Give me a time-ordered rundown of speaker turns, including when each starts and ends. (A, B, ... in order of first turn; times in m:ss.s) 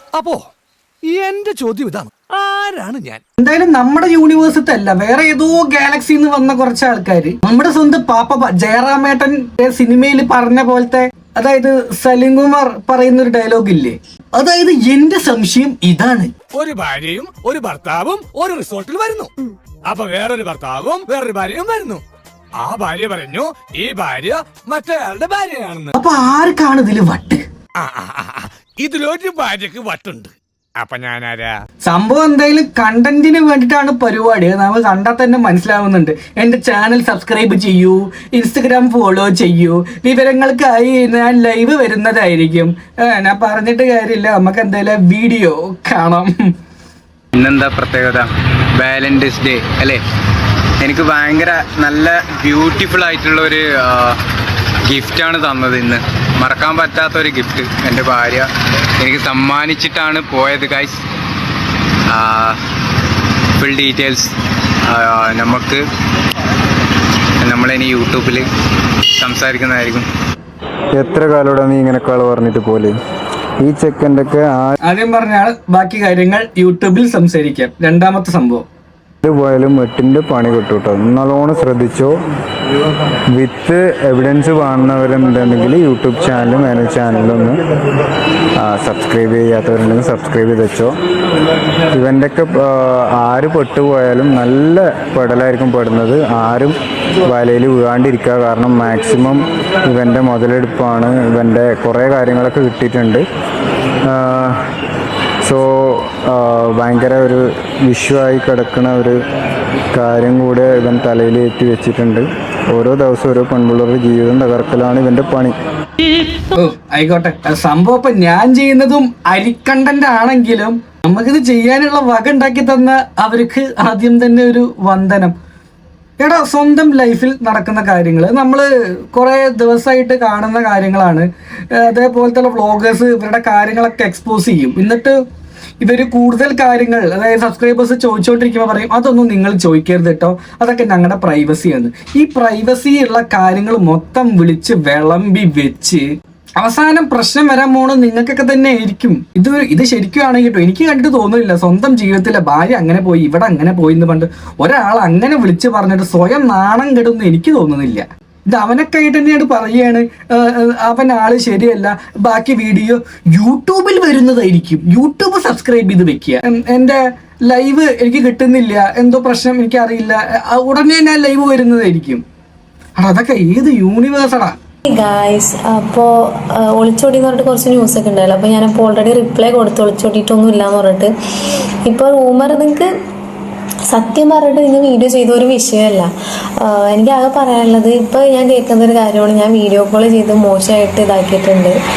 0:00.2-0:00.4 A
0:01.1-0:03.2 A
0:03.4-0:16.3 B
0:16.5-0:19.3 A
0:19.9-0:22.0 A
0:22.6-0:25.9 A
0:26.0-0:27.4 B
0:27.8-0:31.6 A
0:31.8-0:46.3 B
0:47.3-0:50.0 C
0:50.8-0:54.2 C
0:54.8-0:58.5 C
0:59.0-1:01.0 C
1:02.1-1:02.6 C
1:03.6-1:04.3 C
1:04.9-1:05.8 C
1:07.4-1:08.5 C
1:09.1-1:10.1 C
1:10.9-1:13.0 D
1:13.6-1:14.7 D
1:14.8-1:18.6 B
1:19.2-1:22.2 D
1:23.4-1:27.6 D
1:28.6-1:30.9 D
1:31.9-1:43.2 D
1:44.0-1:44.6 D
1:45.4-1:49.2 D
1:49.9-1:55.6 D
1:56.5-2:05.3 B
2:06.2-2:15.2 B
2:15.8-2:26.0 B
2:26.6-2:52.2 B
2:53.0-2:54.5 B
2:54.9-3:01.1 E
3:01.9-3:02.9 E
3:03.9-3:06.1 E
3:06.6-3:11.7 E